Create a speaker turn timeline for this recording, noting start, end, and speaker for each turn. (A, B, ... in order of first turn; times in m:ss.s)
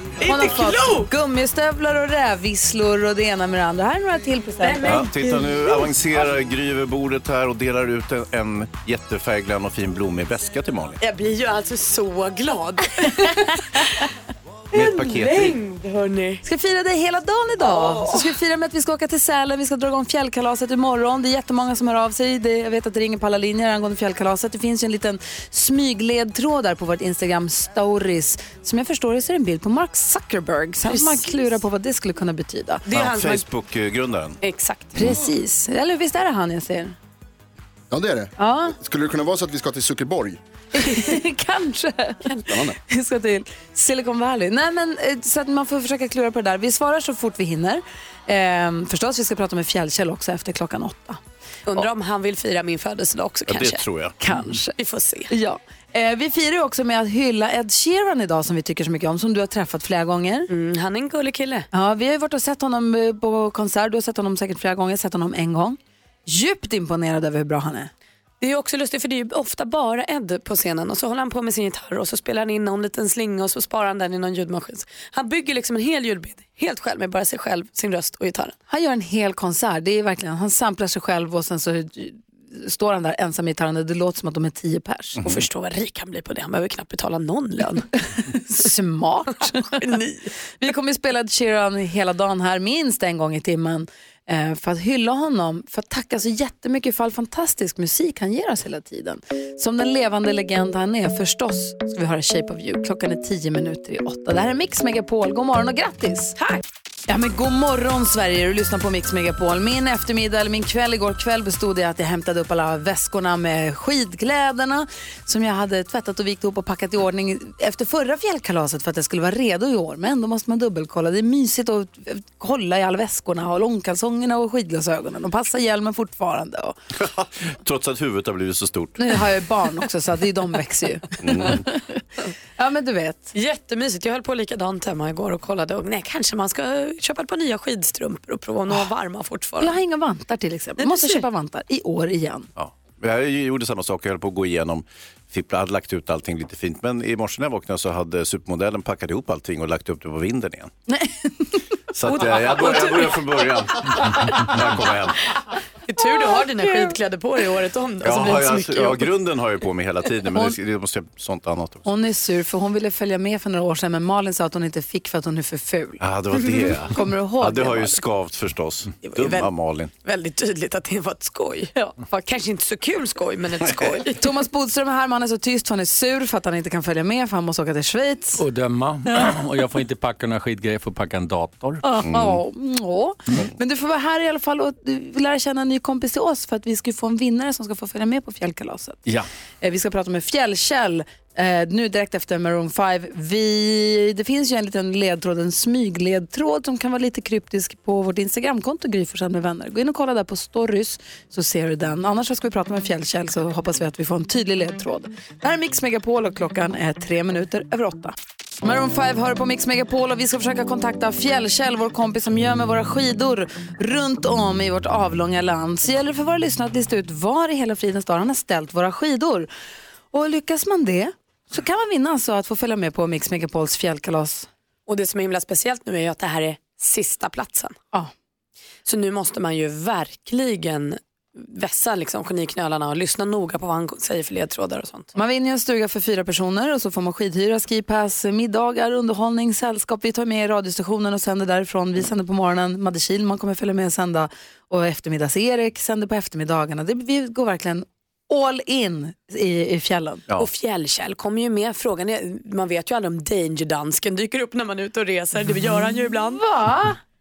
0:00.2-0:05.0 A
0:00.2-0:01.0 B
0:04.6-0:05.8 B
0:04.8-0:11.0 C
0:11.0-0:14.0 B
0:14.7-0:15.6 C
0:14.7-0:16.4 B
0:16.4-0:32.8 A
0:17.6-0:18.2 B
0:30.9-0:31.2 B
0:32.8-0:33.5 B
0:32.9-0:34.4 C
0:34.4-0:34.9 B
0:34.9-0:37.0 A
0:37.9-0:40.4 D
0:38.4-0:38.7 A
0:40.7-0:51.2 A
0:42.5-0:42.8 D
0:51.7-0:53.8 B
0:53.5-0:54.2 C
0:54.2-0:54.7 A
0:54.8-0:55.3 B
0:55.3-1:00.5 A
1:00.5-1:01.7 B
1:01.7-1:07.9 A
1:08.4-1:18.5 B
1:18.7-1:25.2 A
1:25.2-1:25.4 C
1:25.2-1:27.9 B
1:28.2-1:29.8 A
1:29.8-1:30.3 B
1:30.6-1:46.4 A
1:47.1-2:06.8 A
2:07.0-2:09.0 C
2:09.0-2:12.0 A
2:11.2-2:11.6 C
2:12.6-2:13.3 A
2:13.3-2:19.7 B
2:19.6-2:22.5 A
2:20.8-2:21.2 B
2:22.6-2:30.7 C
2:30.9-2:31.5 A
2:31.9-2:35.2 C
2:32.1-2:33.2 B
2:35.9-2:39.1 B
2:38.0-2:41.9 C
2:41.8-2:46.0 A
2:46.0-2:49.9 C
2:46.9-2:48.0 A
2:49.0-2:49.5 B
2:50.0-2:54.2 B
2:54.1-2:58.4 A
2:58.4-3:01.8 E
3:01.8-3:09.0 A
3:02.0-3:02.4 C
3:09.6-3:39.5 A
3:40.1-3:44.5 A
3:44.9-3:47.8 B
3:48.8-3:55.1 B
3:55.1-4:10.2 A
4:10.4-4:16.4 B
4:15.5-4:17.0 A